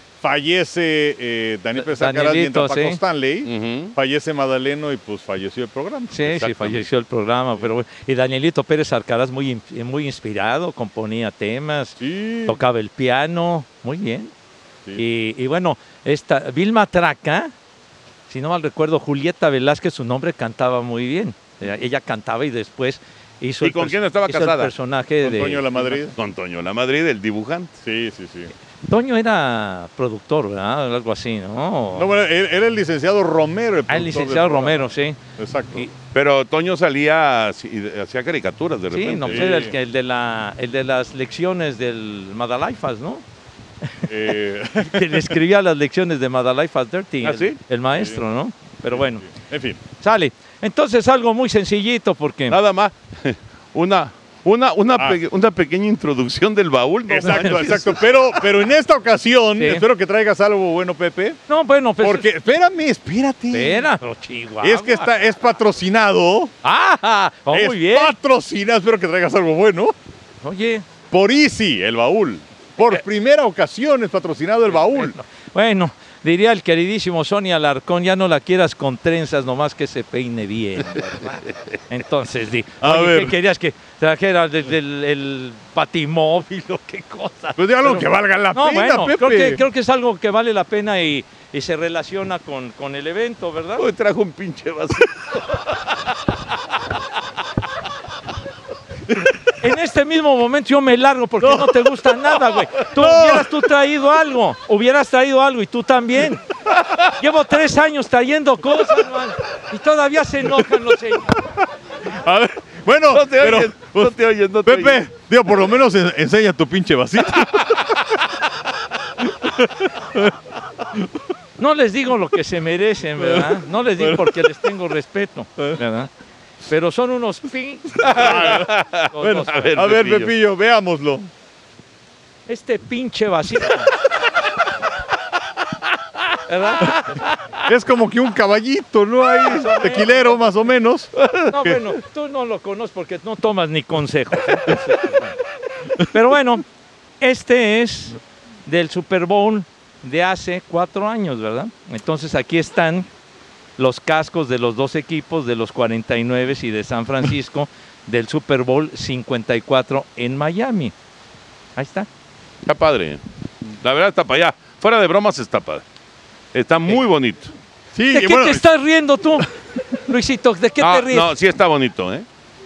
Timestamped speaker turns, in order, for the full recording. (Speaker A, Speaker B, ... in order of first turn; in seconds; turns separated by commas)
Speaker A: 0.2-6.2, Speaker B: 1.8-3.0, Speaker C: 3.4-3.9, Speaker B: 6.1-14.3, Speaker C: 6.3-6.8, Speaker A: 12.0-12.6, Speaker B: 14.9-17.5, Speaker B: 18.3-25.9, Speaker C: 23.6-24.7, Speaker A: 25.2-26.1, Speaker C: 26.1-27.7, Speaker A: 27.8-28.5, Speaker B: 28.9-32.1, Speaker A: 31.9-35.9, Speaker B: 33.9-35.2, Speaker C: 36.1-39.6, Speaker B: 38.9-43.2, Speaker A: 39.3-39.7, Speaker A: 44.1-45.3, Speaker B: 44.8-49.2, Speaker C: 47.2-47.6, Speaker A: 48.9-49.8, Speaker B: 50.0-52.6, Speaker C: 52.5-58.0, Speaker A: 57.1-61.4, Speaker B: 57.2-57.8, Speaker B: 59.6-59.8, Speaker B: 61.5-62.3, Speaker A: 62.0-63.9, Speaker B: 63.5-65.1, Speaker A: 64.6-66.5, Speaker B: 66.6-68.1, Speaker A: 67.5-69.9, Speaker B: 70.4-70.8, Speaker A: 71.1-75.1, Speaker B: 74.8-93.8, Speaker A: 82.8-83.3, Speaker A: 87.6-89.6, Speaker C: 93.8-96.0, Speaker B: 99.6-106.4, Speaker A: 101.4-101.9, Speaker A: 102.9-103.5, Speaker C: 106.8-107.1, Speaker B: 107.2-111.3, Speaker A: 112.0-117.8, Speaker C: 113.1-115.0, Speaker C: 117.6-117.9, Speaker A: 119.4-120.3, Speaker B: 121.6-126.1, Speaker A: 123.2-124.4, Speaker B: 126.7-129.7, Speaker C: 128.1-130.3, Speaker A: 128.1-131.3, Speaker B: 132.5-133.9, Speaker B: 136.5-137.6, Speaker A: 137.6-141.1, Speaker B: 139.4-140.7, Speaker B: 141.4-145.3, Speaker B: 146.1-146.6, Speaker B: 147.2-153.1, Speaker B: 153.8-160.9, Speaker B: 161.8-162.1, Speaker C: 162.6-163.2, Speaker C: 163.8-165.8, Speaker C: 166.5-167.5, Speaker A: 167.9-168.6, Speaker B: 168.1-171.3, Speaker C: 170.8-172.2